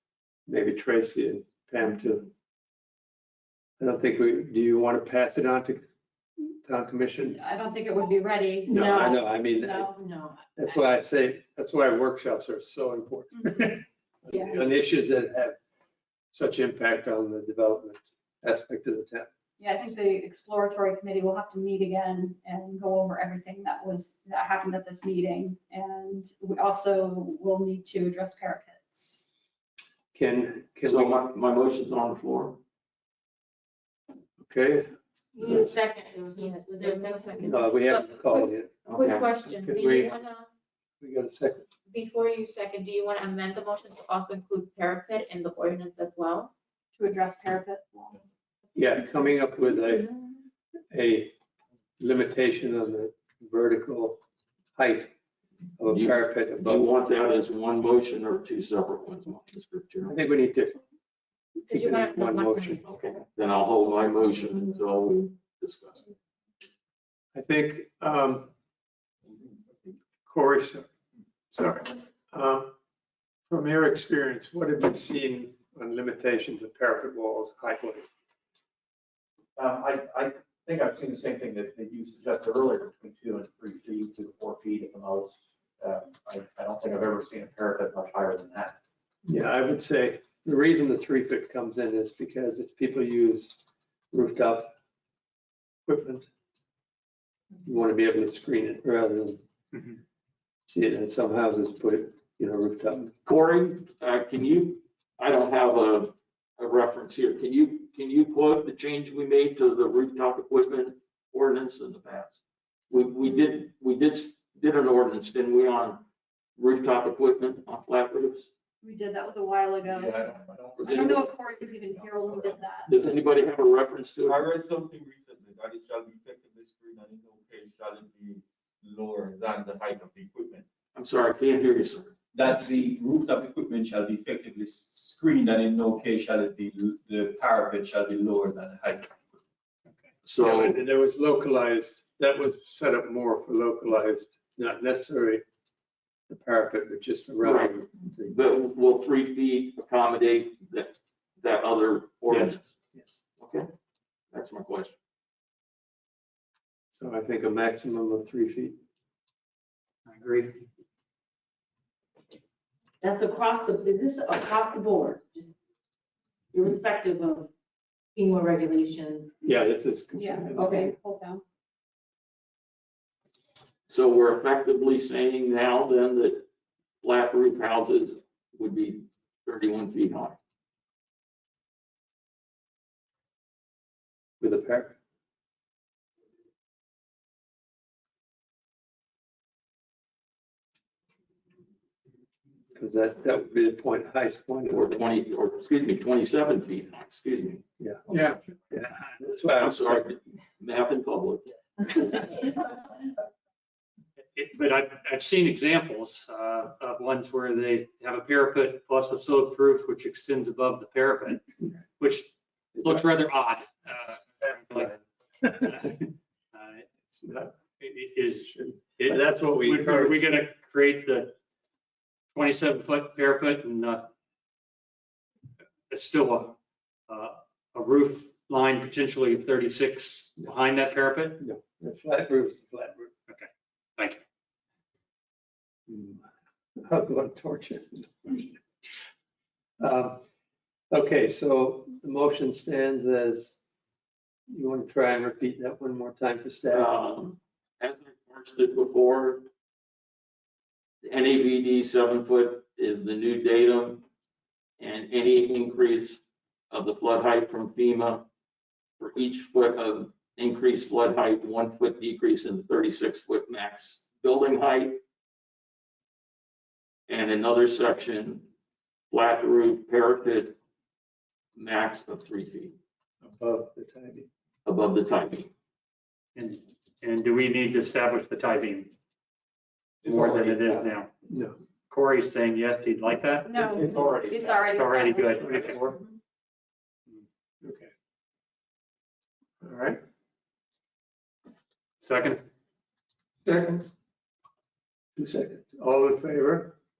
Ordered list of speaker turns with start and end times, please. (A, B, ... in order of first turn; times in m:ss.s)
0:00.5-0:02.3 A
0:03.8-0:05.9 A
0:06.4-0:07.4 A
0:07.3-0:08.8 B
0:08.7-0:10.7 C
0:08.7-0:09.9 A
0:10.6-0:15.6 A
0:16.3-0:19.3 A
0:19.6-0:29.2 B
0:30.1-0:31.2 A
0:30.8-0:32.6 D
0:34.4-0:34.9 A
0:35.4-0:37.6 C
0:35.6-0:40.5 E
0:37.4-0:38.8 A
0:38.8-0:39.3 D
0:39.4-0:40.1 A
0:41.0-0:41.7 A
0:41.9-0:46.5 E
0:47.0-0:48.2 B
0:48.8-0:50.2 A
0:50.9-0:51.3 A
0:52.0-0:54.2 A
0:54.8-0:55.1 A
0:55.8-0:56.8 A
0:55.9-1:00.2 D
1:00.0-1:00.8 A
1:01.7-1:02.9 E
1:01.7-1:02.8 A
1:02.8-1:06.0 D
1:07.4-1:08.5 A
1:10.2-1:10.9 A
1:11.5-1:12.7 A
1:13.5-1:18.1 A
1:19.6-1:28.8 F
1:29.3-1:33.6 A
1:34.1-1:34.7 A
1:35.9-1:36.3 A
1:37.6-1:39.4 A
1:40.7-1:43.1 A
1:43.2-1:56.0 D
1:56.6-1:58.5 D
1:58.8-2:00.2 B
1:59.9-2:01.4 F
2:00.8-2:01.3 D
2:00.8-2:02.9 B
2:02.0-2:02.4 F
2:02.9-2:04.4 D
2:04.2-2:10.6 G
2:11.0-2:12.1 D
2:12.3-2:19.2 G
2:20.2-2:20.8 D
2:20.4-2:25.4 A
2:26.3-2:28.3 A
2:27.4-2:32.7 D
2:33.4-2:33.7 D
2:34.3-2:34.9 D
2:36.9-2:38.8 A
2:40.1-2:40.6 H
2:43.0-2:45.5 C
2:46.5-2:47.5 C
2:48.2-2:49.3 C
2:49.4-2:50.9 A
2:50.2-2:51.4 B
2:50.6-2:50.9 C
2:53.9-2:56.4 D
2:57.0-3:00.4 D
3:04.4-3:05.0 A
3:12.8-3:14.9 A
3:14.7-3:17.6 D
3:17.8-3:20.1 A
3:18.2-3:18.5 D
3:19.5-3:21.5 D
3:24.3-3:31.4 H
3:32.0-3:36.9 H
3:32.8-3:33.0 A
3:35.6-3:35.9 A
3:37.1-3:37.6 A
3:37.8-3:41.4 H
3:38.5-3:40.2 A
3:42.4-3:44.1 H
3:45.9-3:46.6 H
3:47.1-3:51.4 H
3:51.4-3:53.1 A
3:53.3-3:54.2 H
3:55.9-3:56.2 A
3:56.8-3:59.0 A
3:59.8-4:00.2 A
4:00.9-4:03.6 A
4:04.5-4:06.9 A
4:06.7-4:09.5 D
4:11.0-4:14.0 D
4:14.8-4:18.3 D
4:19.0-4:25.0 D
4:27.1-4:28.5 D
4:29.1-4:30.6 D
4:31.6-4:32.8 D
4:33.3-4:34.3 A
4:34.7-4:35.5 D
4:36.4-4:38.9 H
4:40.0-4:41.1 H
4:41.3-4:41.6 A
4:41.9-4:44.1 H
4:43.5-4:45.7 B
4:43.8-4:44.6 F
4:44.6-4:46.0 H
4:47.6-4:47.9 A
4:49.6-4:50.0 A
4:52.0-4:52.4 H
4:53.5-4:53.8 A
4:55.2-4:56.8 A